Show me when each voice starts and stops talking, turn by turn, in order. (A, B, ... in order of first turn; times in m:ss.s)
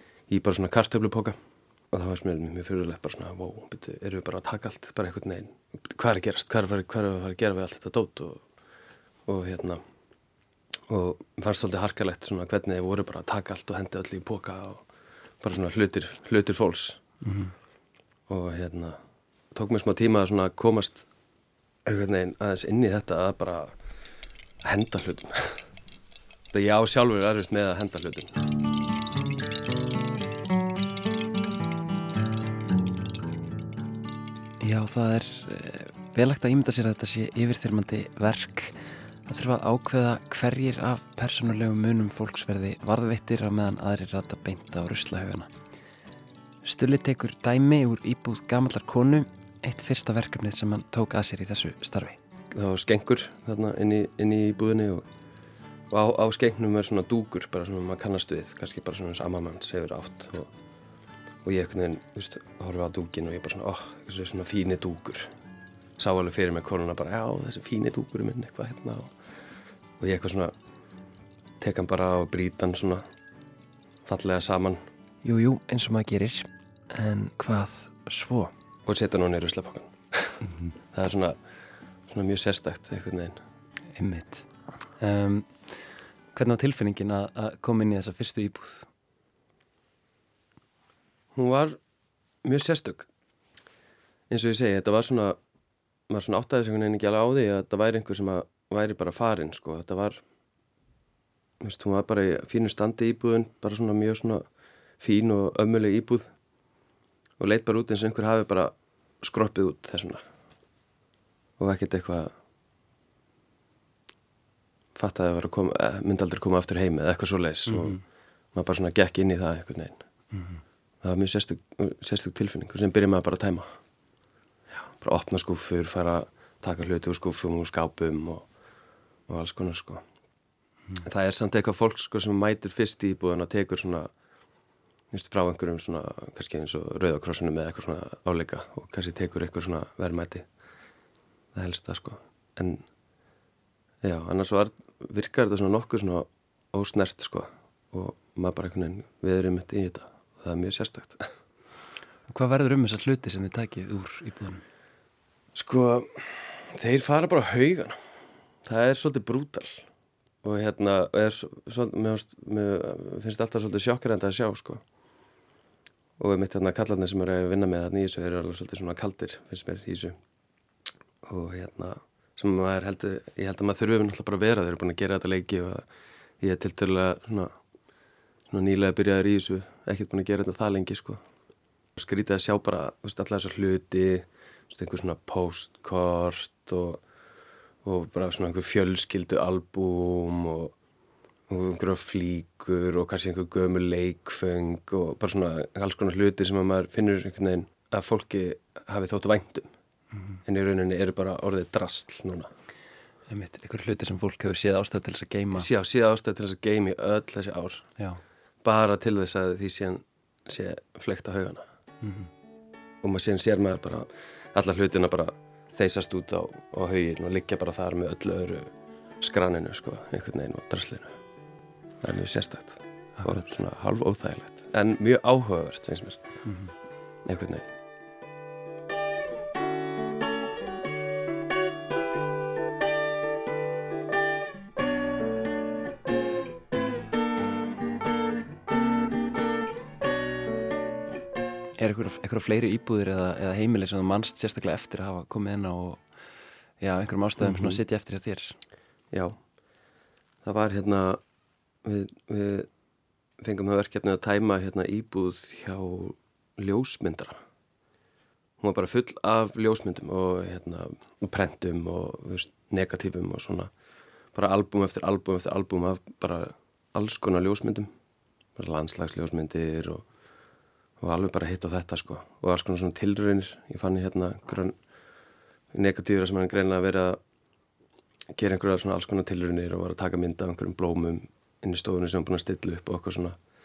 0:00.3-0:01.4 A
0:01.9-0:08.5 A
0:09.2-0:09.8 A
0:10.9-0:14.9 A
0:15.4-0:17.1 A
0:17.2-0:17.5 B
0:18.3-0:19.0 A
0:19.5-0:21.1 A
0:21.9-0:23.8 A
0:24.6-0:25.6 A
0:26.5-0:28.4 A
0:34.6-0:45.5 B
0:46.6-0:52.2 B
0:52.5-0:55.1 A
0:55.9-1:00.5 A
1:01.4-1:05.3 A
1:06.0-1:09.1 A
1:10.0-1:10.5 A
1:11.6-1:13.0 A
1:14.1-1:14.8 A
1:15.2-1:18.5 B
1:18.9-1:20.4 A
1:20.9-1:21.4 A
1:22.1-1:23.4 A
1:24.0-1:25.8 B
1:26.3-1:28.9 B
1:31.4-1:31.8 A
1:32.4-1:33.1 A
1:34.3-1:35.4 A
1:36.1-1:40.2 A
1:41.6-1:44.5 A
1:45.0-1:46.3 A
1:47.4-1:50.2 A
1:51.6-1:52.3 A
1:55.0-1:58.0 A
1:57.7-1:58.0 B
1:58.5-2:00.0 A
2:00.3-2:00.6 B
2:01.0-2:03.8 A
2:04.8-2:08.5 A
2:09.3-2:10.0 A
2:11.0-2:14.1 A
2:15.1-2:20.5 A
2:21.5-2:22.8 A
2:24.0-2:31.3 A
2:32.3-2:34.6 B
2:35.6-2:38.0 A
2:38.6-2:39.9 A
2:40.4-2:44.8 A
2:46.2-2:50.2 A
2:51.2-2:55.9 A
2:56.4-2:57.5 A
2:58.5-3:01.2 A
3:02.0-3:07.0 A
3:07.8-3:10.7 A
3:11.5-3:19.7 A
3:20.4-3:22.5 A
3:23.3-3:25.7 B
3:25.5-3:27.9 A
3:28.6-3:31.7 A
3:32.0-3:32.3 B
3:33.0-3:38.7 A
3:39.2-3:41.2 A
3:42.0-3:46.2 A
3:46.5-3:46.7 B
3:47.2-3:47.7 A
4:01.8-4:06.2 B
4:06.8-4:08.6 B
4:07.4-4:07.8 A
4:09.1-4:09.4 A
4:10.4-4:11.2 A
4:11.8-4:12.7 A
4:13.4-4:17.4 A
4:18.6-4:23.7 A
4:24.3-4:27.9 A
4:28.6-4:30.1 A
4:31.0-4:34.8 A
4:35.7-4:37.2 A
4:38.3-4:43.4 A